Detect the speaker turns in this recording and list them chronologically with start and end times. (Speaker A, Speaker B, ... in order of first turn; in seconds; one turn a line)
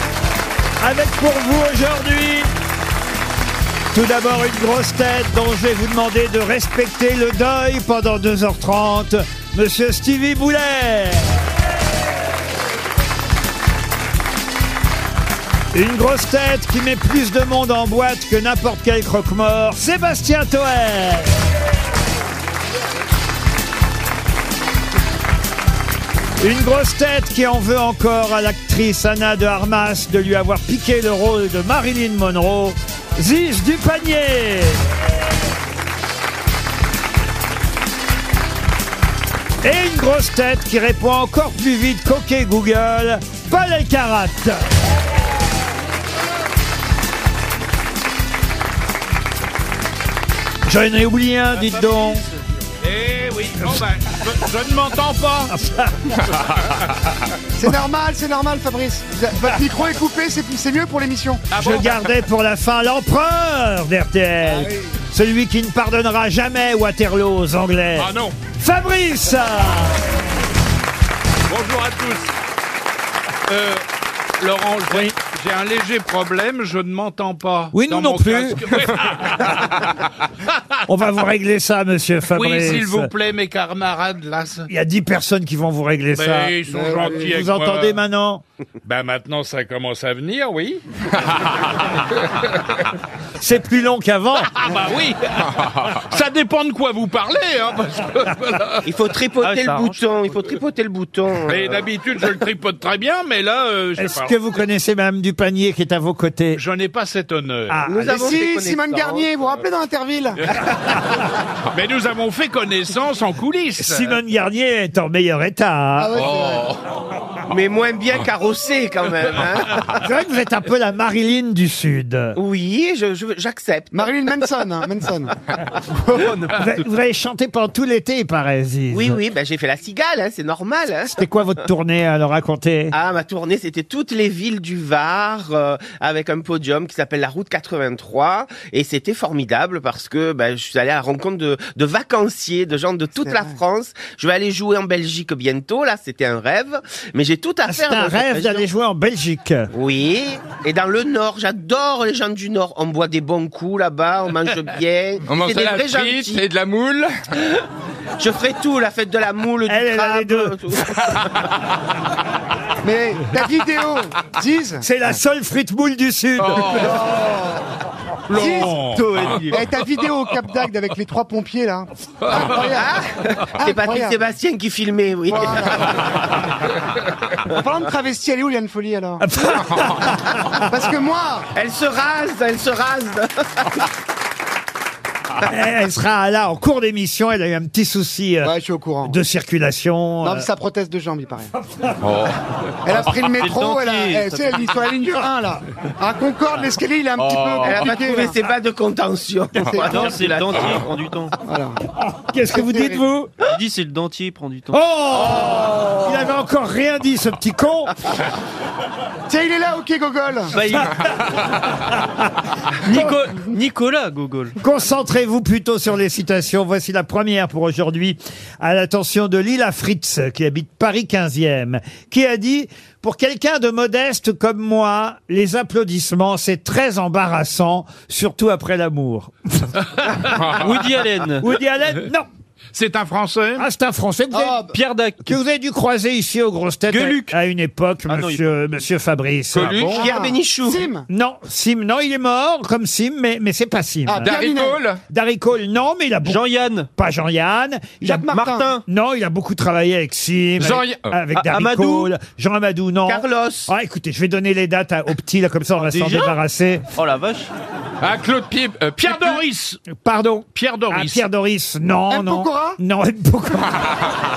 Speaker A: 0.8-2.5
Speaker A: 3.9-11.3
Speaker A: 15.7-21.3
Speaker A: 26.4-34.8
Speaker A: 39.6-44.6
Speaker A: 50.7-52.2
Speaker B: 51.6-52.4
Speaker C: 52.8-55.5
Speaker A: 55.5-55.9
Speaker D: 57.5-61.4
Speaker C: 61.5-62.0
Speaker A: 61.5-70.0
Speaker D: 64.4-64.9
Speaker C: 68.0-68.3
Speaker C: 71.5-72.3
Speaker C: 73.5-73.8
Speaker C: 74.4-79.7
Speaker A: 77.7-78.7
Speaker A: 80.9-83.1
Speaker C: 82.3-84.7
Speaker A: 84.7-86.6
Speaker C: 86.1-88.0
Speaker D: 86.7-87.3
Speaker A: 87.2-88.4
Speaker C: 88.8-91.4
Speaker A: 93.4-94.6
Speaker C: 94.5-98.8
Speaker E: 98.8-101.7
Speaker B: 99.4-100.0
Speaker C: 101.5-104.3
Speaker A: 104.0-106.6
Speaker C: 106.5-107.8
Speaker A: 107.7-108.2
Speaker E: 107.8-109.3
Speaker D: 108.0-110.6
Speaker C: 111.7-114.2
Speaker A: 113.8-116.2
Speaker D: 116.0-116.8
Speaker E: 117.5-120.0
Speaker A: 120.0-122.4
Speaker E: 122.3-124.4
Speaker D: 123.9-125.3
Speaker B: 126.0-126.8
Speaker A: 126.6-129.2
Speaker E: 128.9-131.2
Speaker A: 131.1-132.9
Speaker E: 132.9-148.7
Speaker D: 143.2-143.6
Speaker A: 147.7-149.7
Speaker E: 149.7-156.5
Speaker F: 155.3-157.1
Speaker E: 157.4-157.7
Speaker E: 158.2-161.4
Speaker A: 159.7-160.6
Speaker D: 162.8-164.8
Speaker A: 164.8-166.9
Speaker D: 166.8-167.7
Speaker D: 168.3-168.8
Speaker C: 168.3-169.1
Speaker B: 168.9-169.6
Speaker D: 169.5-173.0
Speaker E: 172.8-176.4
Speaker D: 173.6-174.2
Speaker D: 175.3-176.0
Speaker D: 177.5-179.2
Speaker A: 179.2-180.6
Speaker D: 180.7-181.5
Speaker E: 181.6-183.9
Speaker A: 185.4-188.5
Speaker D: 188.4-189.2
Speaker A: 189.1-190.5
Speaker D: 190.2-191.5
Speaker F: 192.0-192.4
Speaker D: 192.8-198.4
Speaker B: 193.4-194.8
Speaker F: 197.2-197.9
Speaker E: 197.6-200.9
Speaker D: 199.6-200.1
Speaker B: 199.8-201.3
Speaker D: 201.4-201.8
Speaker A: 202.1-203.3
Speaker D: 202.5-203.0
Speaker B: 203.4-204.8
Speaker A: 204.7-208.0
Speaker D: 209.3-210.5
Speaker B: 210.5-211.2
Speaker B: 212.8-214.6
Speaker A: 214.6-230.1
Speaker B: 230.6-231.5
Speaker A: 231.4-232.3
Speaker C: 232.7-233.7
Speaker A: 233.6-234.6
Speaker D: 234.3-234.7
Speaker B: 234.7-235.4
Speaker A: 235.2-240.0
Speaker B: 236.9-237.4
Speaker B: 238.1-238.5
Speaker F: 239.5-240.1
Speaker D: 239.9-241.1
Speaker E: 239.9-240.9
Speaker A: 241.1-244.3
Speaker D: 244.1-244.8
Speaker F: 244.2-245.0
Speaker A: 245.1-248.3
Speaker B: 246.2-246.9
Speaker D: 248.0-248.7
Speaker B: 248.3-248.8
Speaker A: 248.8-256.8
Speaker F: 250.6-251.1
Speaker B: 251.3-252.1
Speaker E: 253.1-253.7
Speaker B: 255.8-256.3
Speaker B: 256.9-257.5
Speaker F: 258.0-259.4
Speaker C: 259.0-259.8
Speaker A: 259.9-264.0
Speaker C: 260.5-261.3
Speaker D: 262.1-262.8